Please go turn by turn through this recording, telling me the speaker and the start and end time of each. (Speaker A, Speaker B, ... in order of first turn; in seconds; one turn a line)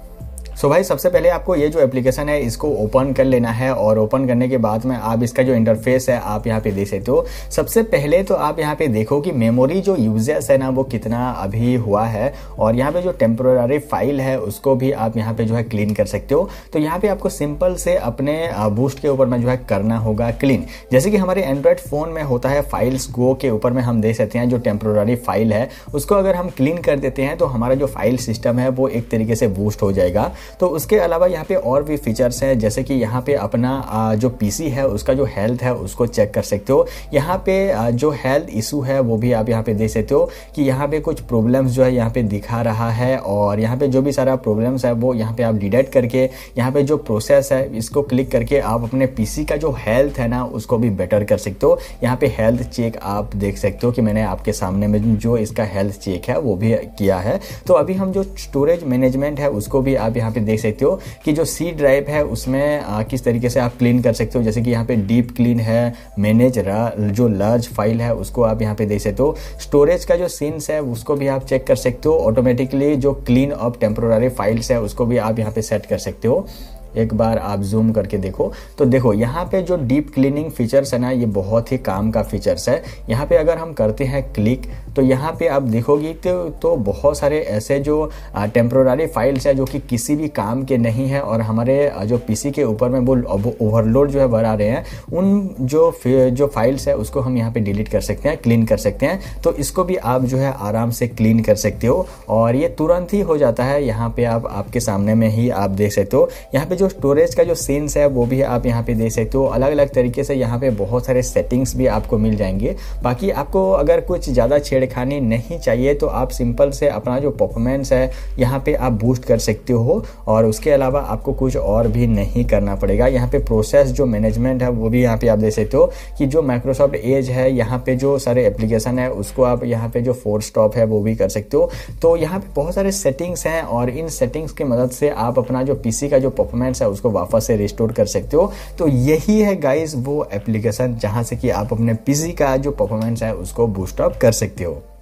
Speaker A: 0.6-144.8